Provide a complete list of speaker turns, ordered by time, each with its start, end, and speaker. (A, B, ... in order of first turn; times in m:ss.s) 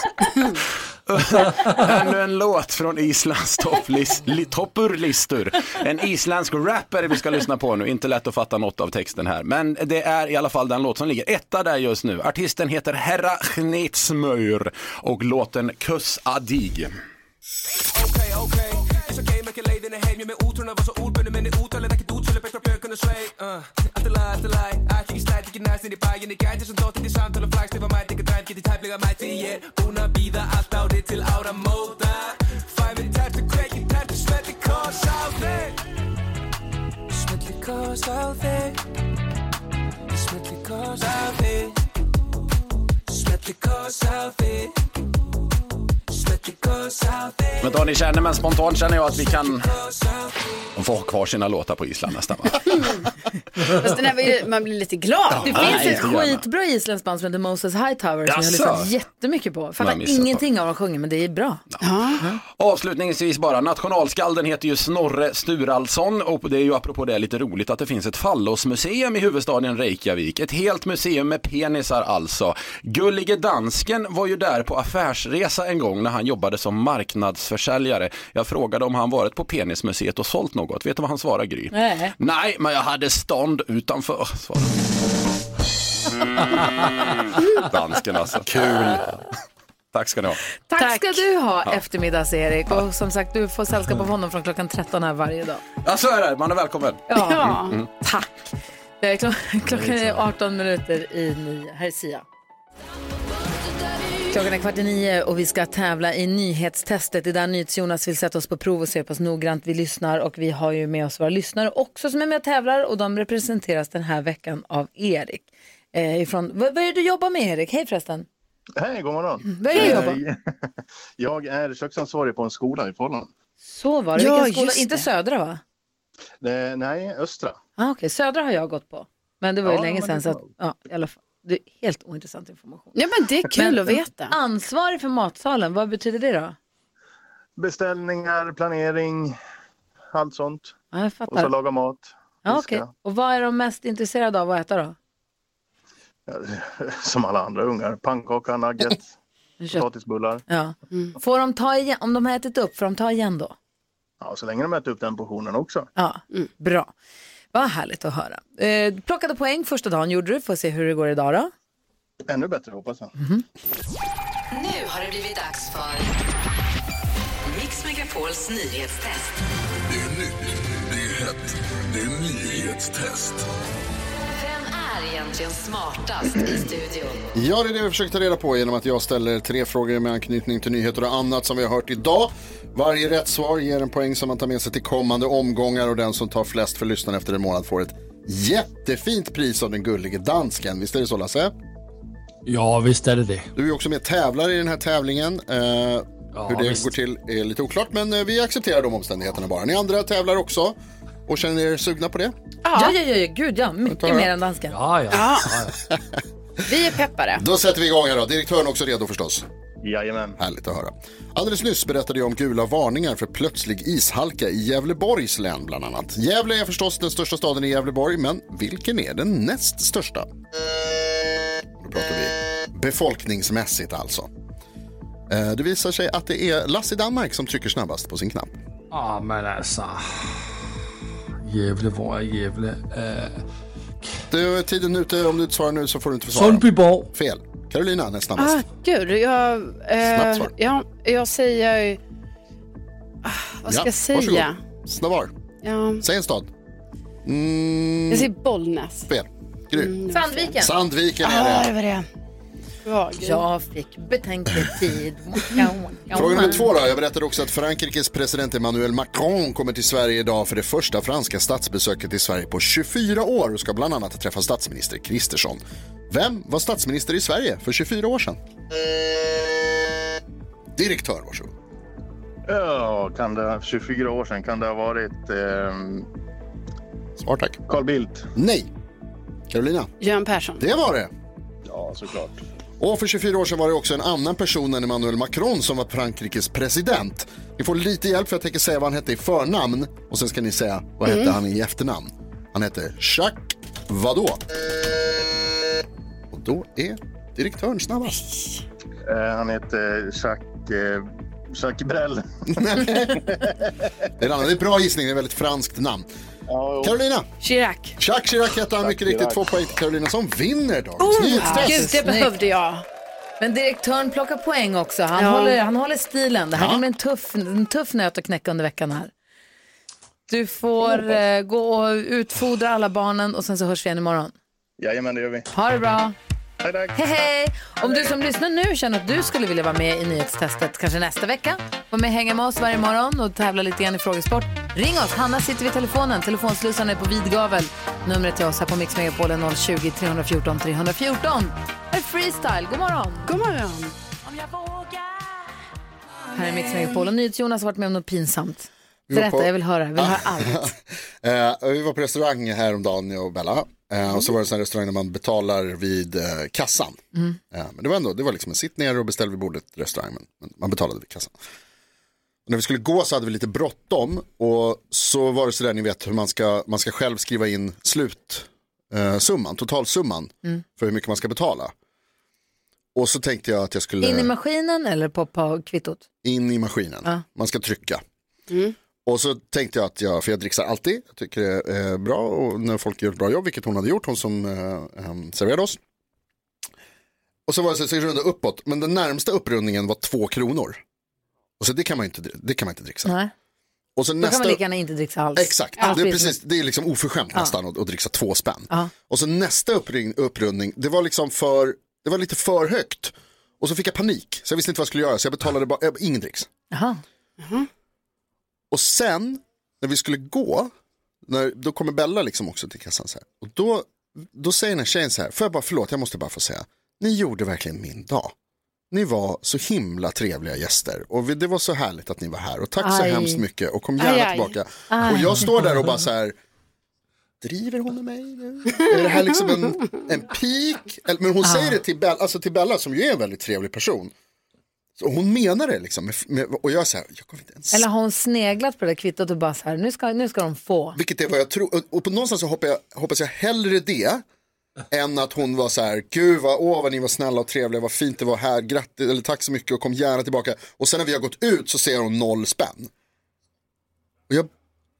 0:01.1-0:16.9 A
0:17.9-0:35.8 B
0:37.1-0:38.8 B
0:40.1-0:41.8 B
0:43.1-0:44.8 B
0:46.1-0:47.6 B
0:47.6-0:49.7 A
0:49.6-0:50.3 B
0:50.8-0:52.9 A
0:52.7-0:53.0 C
0:53.7-0:56.1 C
0:55.4-1:01.6 D
0:55.5-0:56.4 A
0:58.3-0:58.9 A
0:59.8-1:00.4 A
1:01.8-1:02.2 C
1:02.4-1:24.8 A
1:21.7-1:22.1 D
1:27.6-1:29.2 A
1:29.9-1:30.4 A
1:30.7-1:31.2 C
1:30.7-1:35.6 D
1:35.8-1:37.9 A
1:37.1-1:42.2 D
1:37.2-1:37.8 C
1:39.7-1:40.2 E
1:44.3-1:58.3 D
1:58.8-2:00.5 F
1:59.5-2:00.2 D
2:01.2-2:03.3 F
2:03.7-2:05.6 D
2:04.2-2:05.0 C
2:06.4-2:07.6 F
2:07.8-2:13.0 D
2:09.6-2:10.5 F
2:13.0-2:14.3 C
2:13.5-2:16.6 D
2:17.6-2:19.4 F
2:20.1-2:20.7 F
2:20.9-2:21.5 D
2:21.3-2:22.9 F
2:22.4-2:25.0 D
2:26.3-2:29.1 F
2:29.7-2:30.4 F
2:30.5-2:33.6 D
2:34.2-2:35.9 F
2:36.0-2:36.9 D
2:37.5-2:41.5 D
2:42.3-2:43.1 F
2:43.2-2:43.4 D
2:44.5-2:46.1 G
2:47.5-2:49.3 G
2:49.9-2:53.5 H
2:54.3-2:57.3 G
2:57.4-3:11.5 I
3:12.5-3:13.5 E
3:13.6-3:22.3 I
3:16.4-3:16.9 E
3:22.7-3:22.9 C
3:22.7-3:24.8 D
3:23.8-3:24.3 I
3:24.7-3:25.8 E
3:25.1-3:25.5 C
3:26.7-3:27.4 C
3:27.4-3:29.4 I
3:29.8-3:30.4 F
3:30.4-3:40.3 I
3:41.8-3:44.3 I
3:45.3-3:48.6 I
3:48.9-3:50.6 E
3:51.4-3:53.4 E
3:54.3-3:58.6 I
3:56.4-3:57.1 E
3:58.4-4:02.0 C
4:00.0-4:00.5 I
4:03.2-4:04.6 C
4:03.7-4:05.3 I
4:05.6-4:06.0 C
4:06.0-4:06.5 I
4:07.2-4:08.3 I
4:08.1-4:09.1 C
4:09.1-4:10.0 I
4:09.7-4:10.6 C
4:10.1-4:10.7 D
4:10.6-4:11.7 I
4:11.2-4:12.1 C
4:12.8-4:13.4 C
4:13.2-4:16.6 D
4:16.1-4:28.4 I
4:16.2-4:16.4 C
4:30.8-4:31.5 I
4:32.5-4:36.1 F
4:37.2-4:37.6 I
4:37.7-4:38.3 F
4:38.4-4:38.7 I
4:39.5-4:39.9 I
4:40.0-4:40.6 C
4:40.6-4:41.1 I
4:41.6-4:42.4 F
4:42.8-4:54.4 I
4:56.3-4:58.6 I
4:59.1-5:03.7 F
5:02.5-5:03.4 I
5:04.2-5:06.1 I
5:06.5-5:07.0 F
5:06.8-5:07.3 I
5:07.5-5:07.9 D
5:08.0-5:12.0 I
5:08.8-5:09.5 F
5:11.0-5:12.8 C
5:11.5-5:12.3 D
5:13.4-5:19.1 D
5:15.2-5:15.6 C
5:16.6-5:16.8 I
5:20.3-5:24.3 D
5:24.8-5:25.5 F
5:25.5-5:26.2 D
5:26.6-5:27.0 F
5:27.0-5:43.3 D
5:43.2-5:43.9 C
5:46.3-5:50.7 D
5:49.1-6:01.3 I
6:02.5-6:11.7 I
6:13.0-6:14.3 I
6:14.0-6:16.0 D
6:16.2-6:18.0 I
6:18.5-6:18.8 C
6:19.1-6:25.8 I
6:27.5-6:30.8 I
6:31.6-6:33.2 I
6:33.1-6:33.3 D
6:34.0-6:34.6 I
6:34.2-6:36.4 D
6:35.4-6:46.5 I
6:46.7-6:47.0 D
6:47.4-6:47.7 C
6:48.7-6:50.7 I
6:51.3-6:58.3 I
6:58.9-7:06.4 I
7:02.8-7:03.4 D
7:04.0-7:04.5 C
7:04.9-7:05.4 D
7:07.4-7:14.1 I
7:11.4-7:11.8 D
7:15.0-7:17.9 I
7:17.7-7:21.0 D
7:21.0-7:24.2 I
7:24.9-7:32.9 I